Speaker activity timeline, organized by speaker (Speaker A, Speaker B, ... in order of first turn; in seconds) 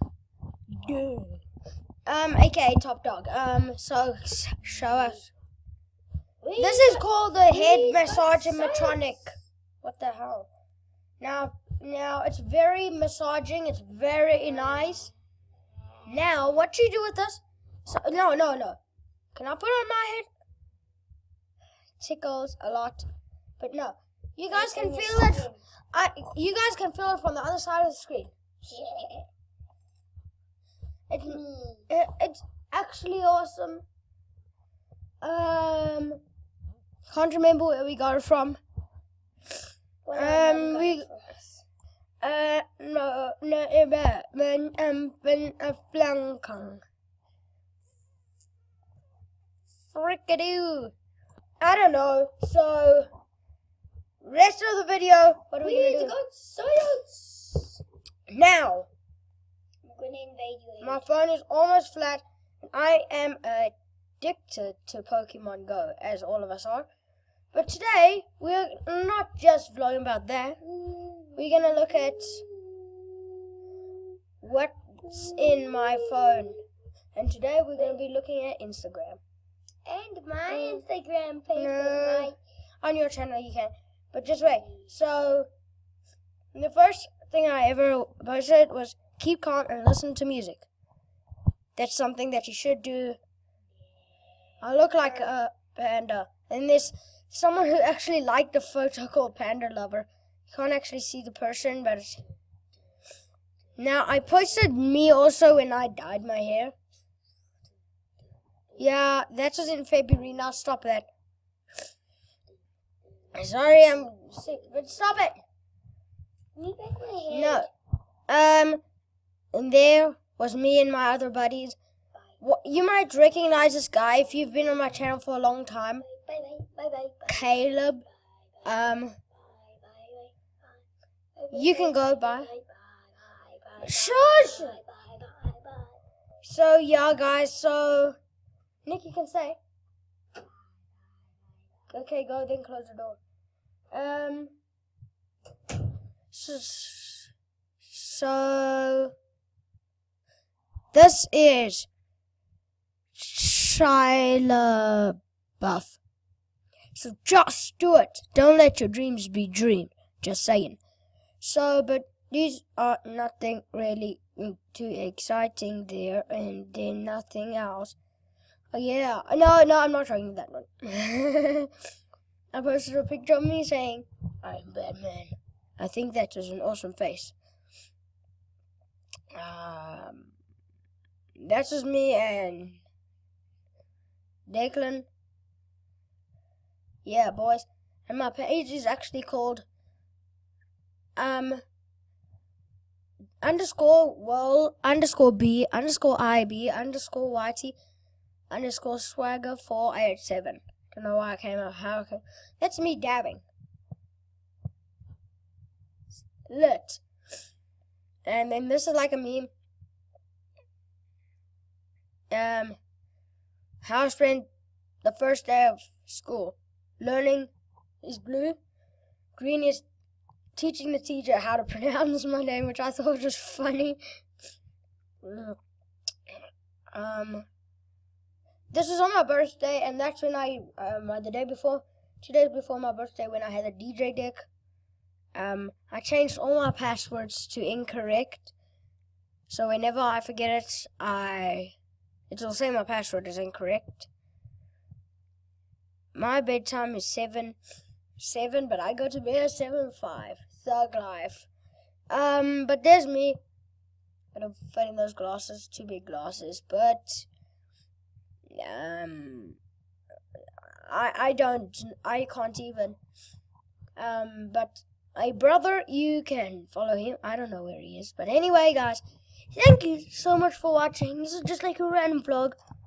Speaker A: 0.8-1.3, 2.0-5.3, 6.6-10.5, 11.2-15.1, 16.1-18.8, 19.3-20.3, 22.0-23.1, 23.6-28.3, 31.1-33.8, 35.2-36.2, 37.1-38.6, 40.1-41.1, 42.2-46.8, 49.9-50.9, 51.6-53.1, 54.2-56.1, 58.3-58.9, 60.8-66.8, 67.5-70.6, 71.3-72.4, 74.4-76.6, 77.1-79.2, 80.5-80.8, 81.5-85.5, 86.5-90.7, 91.8-93.2, 94.6-102.2, 103.8-106.7, 108.8-111.1, 113.3-115.4, 117.3-117.7, 118.3-118.8, 119.5-121.8, 122.4-126.0, 127.3-128.0, 128.6-129.2, 131.5-132.5, 133.8-134.8, 136.4-138.2, 138.8-139.6, 141.9-143.2, 143.9-144.5, 146.3-147.3, 147.8-149.1, 150.9-151.9, 153.2-156.0, 156.9-160.8, 161.4-167.9, 168.7-171.7, 172.5-177.3, 179.3-180.3, 181.4-182.8, 184.5-185.1, 187.0-189.7, 191.2-191.6, 193.4-197.8, 198.5-203.4, 206.5-207.0, 208.2-209.5, 212.3-212.8, 213.8-214.5, 215.0-217.5, 218.0-218.6, 219.3-219.8, 220.6-224.0, 225.2-225.6, 226.9-227.5, 228.7-234.4, 235.3-238.5, 239.5-241.7, 242.3-244.1, 246.1-247.6, 248.2-251.5, 252.1-253.4, 254.3-257.3, 258.5-259.6, 260.8-263.0, 263.9-269.0, 269.5-272.6
Speaker B: 6.4-9.2, 24.5-25.6, 28.6-29.3, 31.3-31.9, 40.0-41.5, 55.6-57.8, 59.8-61.0, 70.6-73.5, 75.3-76.4, 79.8-82.4, 116.5-117.7, 126.0-127.5, 129.4-130.8, 131.3-135.9